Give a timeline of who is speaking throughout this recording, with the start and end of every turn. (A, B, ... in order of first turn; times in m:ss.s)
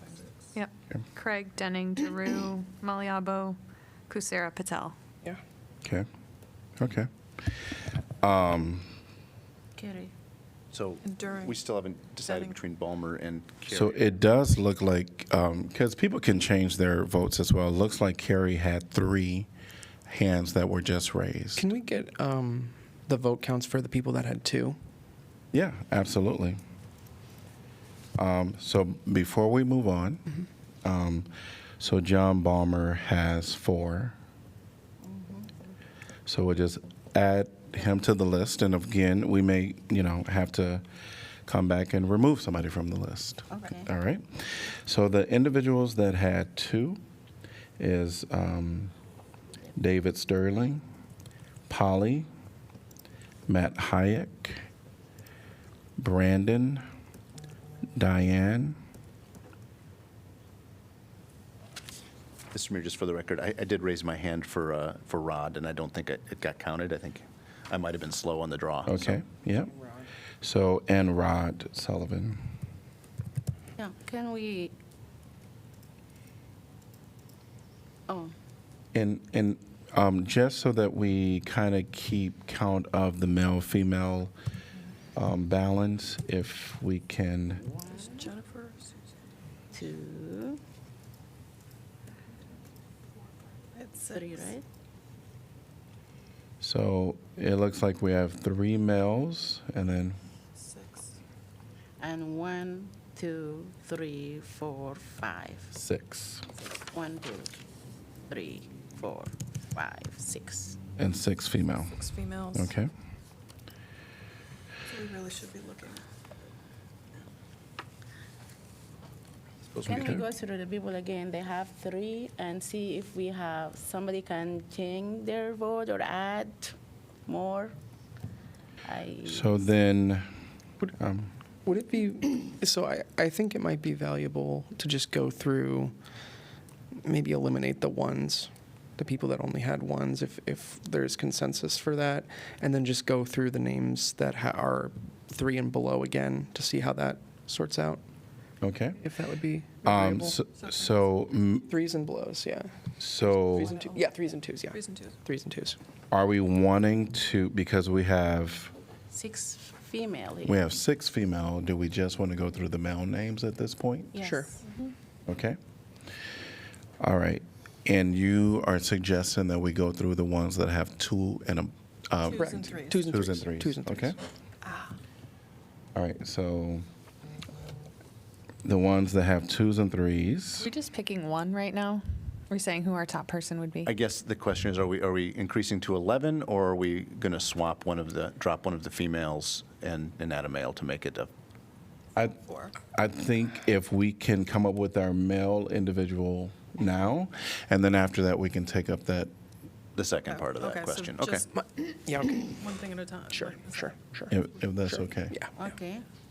0:00.5-0:03.6 A
0:04.1-0:04.9 A
0:06.8-0:07.6 B
0:08.2-0:08.9 B
0:09.8-0:10.1 C
0:10.7-0:14.1 D
0:11.0-0:11.6 E
0:12.3-0:12.6 E
0:13.6-0:19.5 B
0:20.1-0:21.6 B
0:21.6-0:24.8 F
0:25.5-0:26.6 B
0:28.2-0:30.2 B
0:30.8-0:31.3 B
0:31.8-0:34.1 B
0:35.0-0:35.5 C
0:36.2-0:40.8 B
0:41.4-0:47.0 B
0:43.5-0:43.9 C
0:47.8-0:48.9 B
0:49.8-0:50.8 B
0:51.7-0:52.3 B
0:53.5-0:54.6 B
0:56.0-0:56.8 B
0:58.0-0:58.8 B
1:02.5-1:09.2 D
1:08.8-1:09.7 B
1:10.4-1:12.4 B
1:13.8-1:14.7 C
1:18.1-1:18.3 C
1:18.9-1:24.3 B
1:25.2-1:27.6 B
1:27.8-1:28.2 C
1:28.2-1:28.8 E
1:29.7-1:30.6 C
1:33.8-1:34.5 E
1:34.1-1:34.6 C
1:36.6-1:40.2 B
1:42.0-1:45.7 C
1:45.7-1:46.4 B
1:46.9-1:47.6 C
1:48.3-1:50.8 C
1:51.0-1:52.0 B
1:52.0-1:52.6 E
1:52.5-1:52.9 B
1:54.9-1:56.0 E
1:59.7-2:00.2 B
1:59.8-2:06.7 C
2:07.2-2:07.7 C
2:08.8-2:09.6 C
2:09.2-2:10.3 B
2:11.0-2:11.3 B
2:11.6-2:15.9 F
2:17.0-2:28.0 F
2:28.6-2:29.0 B
2:29.0-2:30.4 F
2:29.8-2:31.7 B
2:31.7-2:35.8 F
2:33.0-2:33.8 B
2:33.6-2:35.1 E
2:36.1-2:38.7 B
2:39.1-2:40.6 C
2:40.4-2:44.2 B
2:44.1-2:44.6 C
2:44.2-2:44.5 F
2:45.3-2:45.6 B
2:47.0-2:54.2 B
2:52.3-2:53.0 E
2:52.4-2:54.1 F
2:54.6-2:54.9 E
2:55.9-2:56.8 B
2:58.6-3:00.7 B
3:00.6-3:03.9 A
3:03.8-3:11.3 D
3:12.2-3:19.3 B
3:20.0-3:21.4 D
3:20.3-3:21.4 E
3:21.5-3:22.6 F
3:22.5-3:24.1 E
3:23.3-3:24.3 F
3:24.3-3:25.3 B
3:24.8-3:25.5 F
3:25.6-3:26.0 C